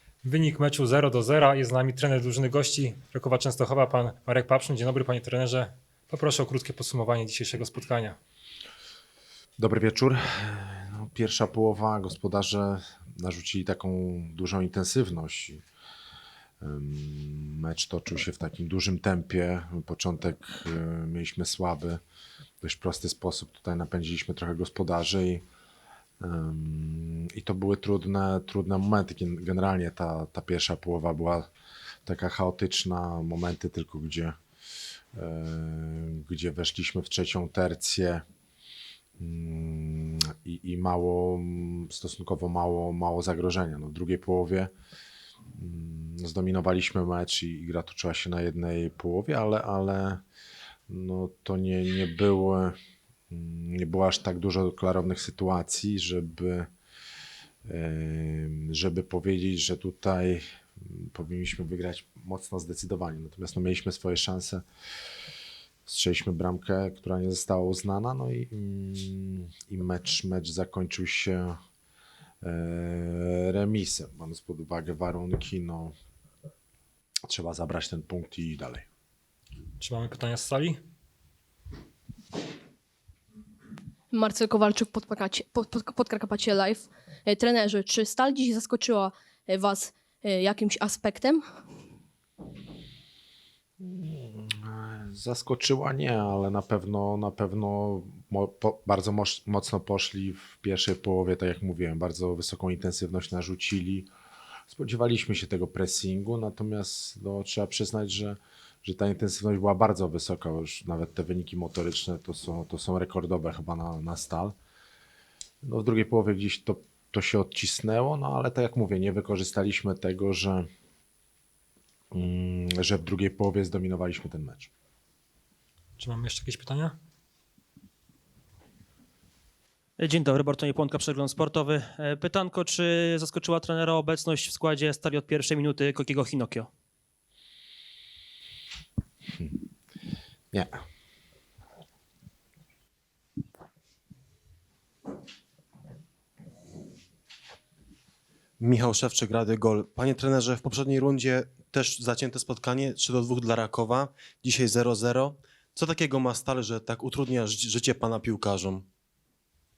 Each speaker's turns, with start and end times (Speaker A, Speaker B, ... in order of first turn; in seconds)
Speaker A: 0.2-8.2, 79.8-80.8, 126.0-127.0
Speaker B: 9.6-15.6, 16.6-22.0, 22.6-25.4, 26.2-31.5, 32.1-34.4, 35.1-38.2, 39.2-44.7, 45.6-50.2, 50.9-52.8, 53.3-56.7, 57.7-64.6, 65.9-71.6, 72.4-75.9, 77.3-78.8, 93.8-104.1, 104.7-114.5, 115.6-120.7, 122.1-124.7
Speaker C: 84.1-91.4
Speaker D: 130.0-136.7
Speaker E: 148.6-158.9